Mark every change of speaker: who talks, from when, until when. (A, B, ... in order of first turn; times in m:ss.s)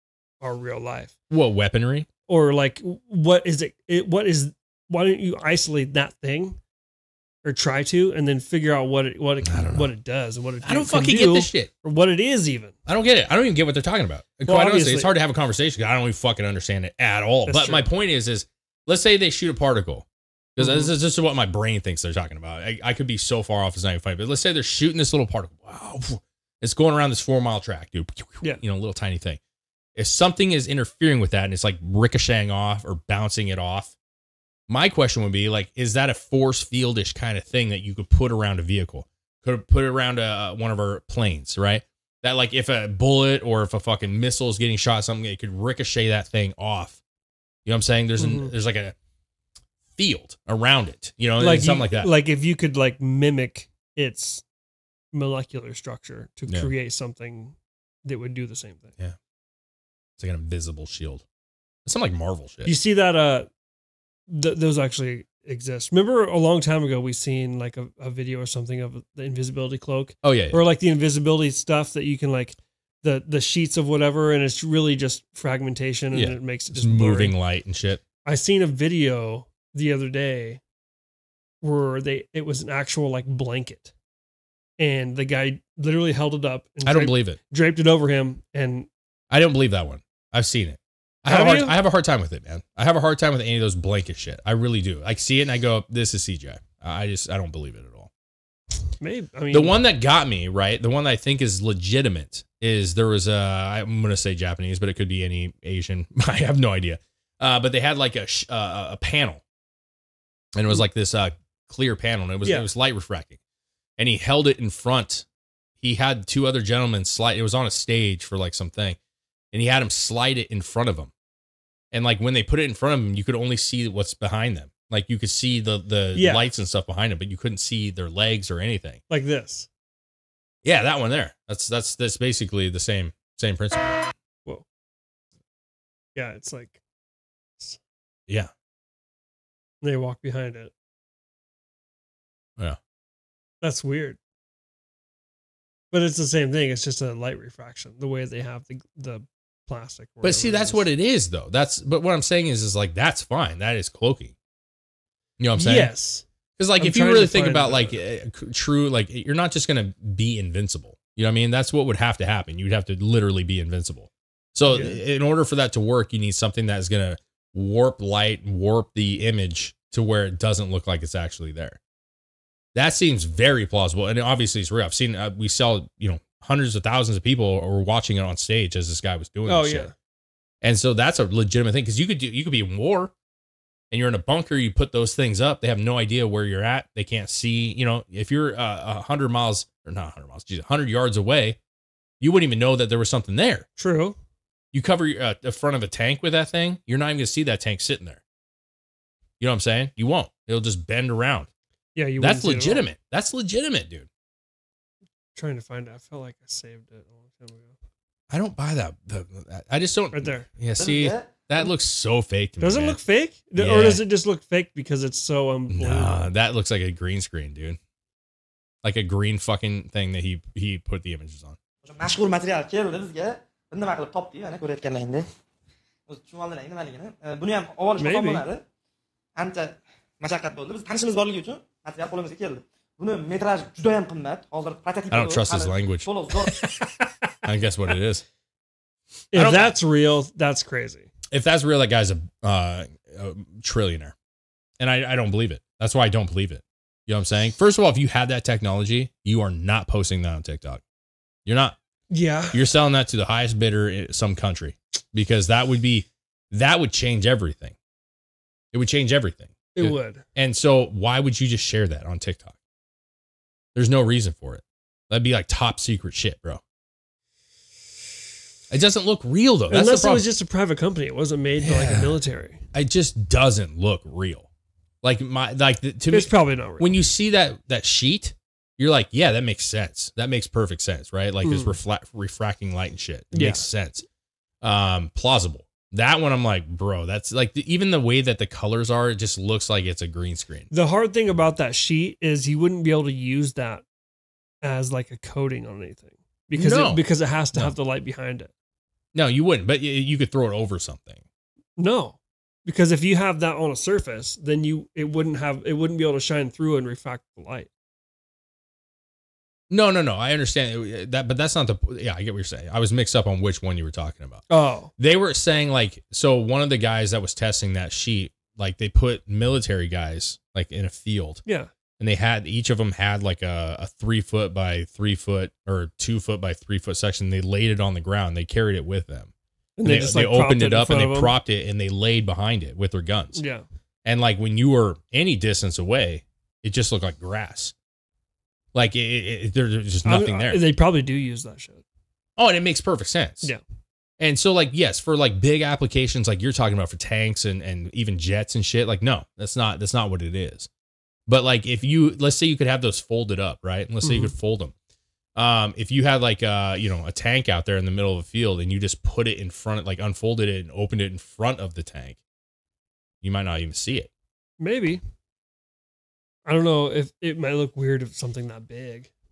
0:00.4-0:01.1 A
0:01.3-0:02.1 B
0:02.3-0:06.6 A
0:07.4-0:12.8 A
0:09.4-0:09.9 B
0:10.6-0:11.7 B
0:12.8-0:29.4 B
0:14.4-0:15.1 A
0:17.5-0:17.9 A
0:20.6-0:20.9 A
0:30.0-0:33.9 B
0:34.7-0:47.0 B
0:47.6-0:48.9 B
0:48.2-0:48.5 A
0:50.0-0:52.1 B
0:51.4-0:54.4 A
0:55.1-0:58.9 A
1:00.2-1:01.2 B
1:01.8-1:02.7 B
1:02.6-1:03.5 A
1:04.3-1:17.3 A
1:10.2-1:10.6 B
1:16.1-1:18.0 B
1:18.2-1:20.6 A
1:21.6-1:23.9 A
1:24.8-1:28.9 A
1:26.8-1:27.4 B
1:29.3-1:38.1 B
1:31.3-1:31.8 A
1:39.0-1:39.8 A
1:39.5-1:49.4 B
1:50.5-1:53.4 B
1:52.4-1:52.7 A
1:54.0-1:55.2 B
1:55.8-1:59.0 B
1:59.5-2:01.1 B
2:01.9-2:09.0 B
2:06.1-2:06.5 A
2:09.1-2:09.7 A
2:10.6-2:13.8 B
2:16.1-2:16.8 A
2:19.8-2:20.7 A
2:23.6-2:24.2 A
2:25.9-2:30.9 A
2:30.2-2:34.3 B
2:35.4-2:35.9 B
2:35.6-2:36.2 A
2:36.6-2:51.8 B
2:36.8-2:38.0 A
2:44.7-2:45.0 A
2:52.7-2:59.9 B
2:59.4-2:59.9 A
3:00.6-3:03.1 B
3:03.9-3:11.6 B
3:12.2-3:13.7 B
3:13.8-3:14.2 A
3:14.7-3:18.2 B
3:19.4-3:21.5 B
3:21.9-3:22.8 A
3:22.2-3:24.1 B
3:25.3-3:27.8 A
3:28.3-3:33.0 B
3:30.1-3:30.5 A
3:30.8-3:31.5 C
3:32.6-3:36.3 A
3:33.6-3:34.0 B
3:35.7-3:37.8 B
3:38.8-3:41.6 B
3:41.8-3:45.3 C
3:46.1-3:48.6 C
3:48.0-3:48.4 A
3:49.4-3:56.6 C
3:55.1-3:56.1 B
3:56.5-3:57.2 A
3:57.4-3:58.2 B
3:59.3-4:01.1 A
3:59.3-3:59.7 B
4:01.3-4:04.1 B
4:04.8-4:10.8 B
4:11.4-4:11.8 B
4:12.1-4:12.6 A
4:12.5-4:17.7 B
4:18.7-4:22.5 B
4:19.7-4:20.2 A
4:23.7-4:26.6 B
4:28.7-4:30.3 B
4:29.7-4:32.6 A
4:31.6-4:32.2 B
4:32.7-4:34.5 B
4:35.0-4:44.0 B
4:36.1-4:36.9 A
4:41.4-4:41.7 A
4:43.3-4:43.6 A
4:44.6-4:50.7 B
4:50.7-4:53.8 A
4:54.6-4:58.5 A
4:56.5-4:57.0 B
4:59.1-5:01.2 B
5:01.8-5:07.7 A
5:09.7-5:14.4 B
5:14.5-5:14.9 A
5:15.0-5:21.4 B
5:22.0-5:29.3 B
5:29.8-5:31.3 A
5:29.8-5:33.4 B
5:33.3-5:33.6 A
5:34.0-5:37.7 B
5:38.7-5:40.6 B
5:40.0-5:41.8 A
5:42.4-5:43.5 B
5:44.2-5:50.7 B
5:51.3-5:54.7 B
5:54.0-5:54.3 A
5:55.4-6:02.2 B
6:03.2-6:04.1 B
6:04.6-6:05.0 A
6:06.4-6:09.1 A